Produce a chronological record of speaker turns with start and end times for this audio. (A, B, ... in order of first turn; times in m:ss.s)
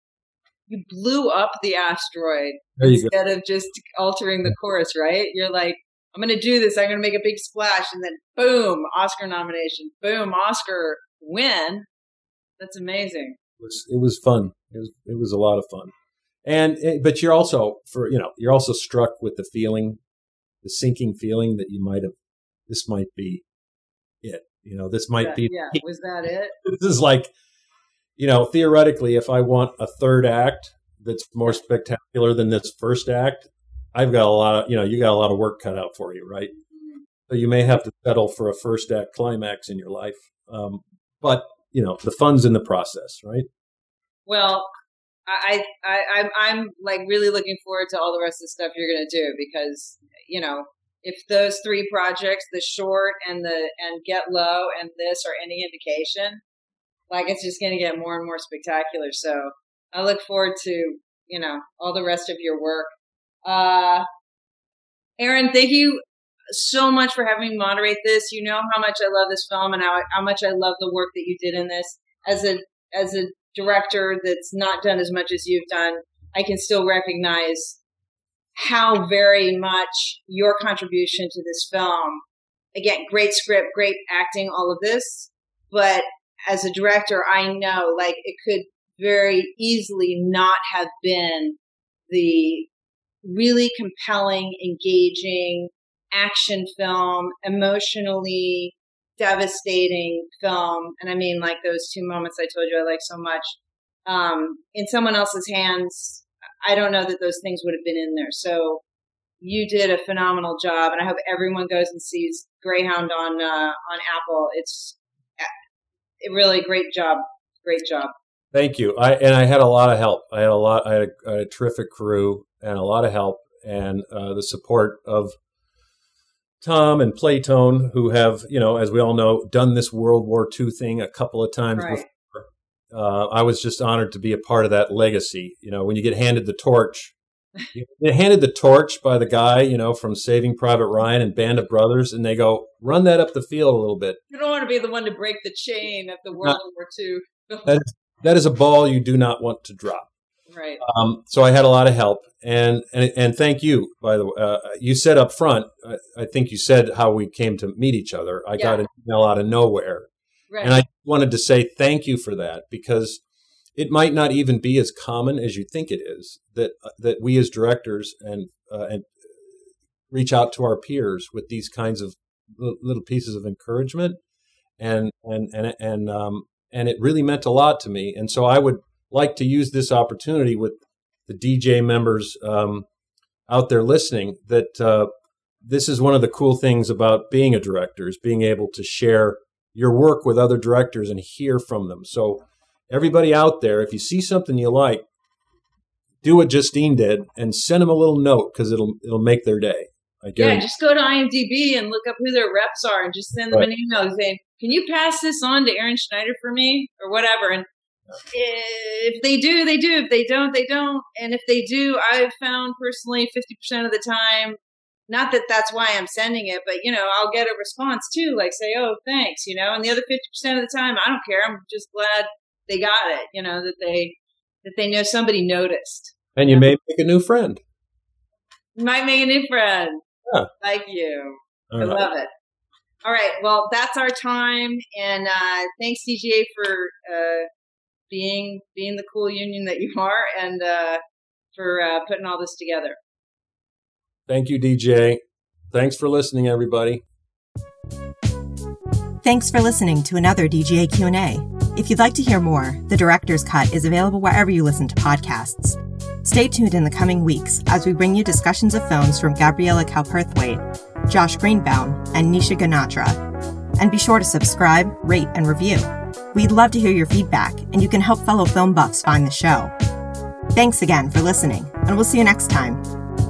0:00.7-0:11.9 A
0:02.8-0:03.1 B
0:12.6-0:13.4 A
0:13.6-0:15.9 B
0:16.4-0:20.0 B
0:20.6-0:22.1 B
0:22.7-0:23.4 B
0:24.2-0:25.8 B
0:25.2-0:26.5 A
0:26.6-0:27.3 B
0:28.2-0:36.5 B
0:36.7-0:37.0 A
0:37.3-0:43.5 B
0:44.2-0:44.7 A
0:45.3-0:56.4 A
0:57.1-1:02.9 A
1:03.4-1:04.0 A
1:05.2-1:17.8 A
1:18.6-1:22.2 A
1:22.7-1:31.6 A
1:32.1-1:32.7 A
1:33.2-1:48.8 A
1:49.4-1:55.5 A
1:56.2-1:58.1 A
1:58.5-2:05.3 B
2:06.6-2:17.1 B
2:11.8-2:12.0 A
2:17.7-2:24.2 B
2:24.3-2:27.8 A
2:27.6-2:30.1 B
2:30.5-2:30.8 A
2:30.8-2:40.1 B
2:40.5-2:40.8 A
2:40.6-2:43.2 B
2:43.8-2:49.5 B
2:50.1-2:54.2 B
2:54.8-3:02.8 B
3:03.5-3:05.1 B
3:05.6-3:15.0 B
3:16.2-3:20.6 B
3:20.4-3:27.7 A
3:28.3-3:46.7 A
3:46.4-3:47.6 B
3:48.8-3:50.0 A
3:50.6-3:52.3 A
3:51.7-3:52.0 B
3:53.0-3:57.5 A
3:58.1-4:01.0 A
4:01.5-4:03.0 A
4:04.3-4:05.2 B
4:05.7-4:07.0 B
4:09.2-4:23.2 C
4:23.8-4:29.7 C
4:30.5-4:32.8 C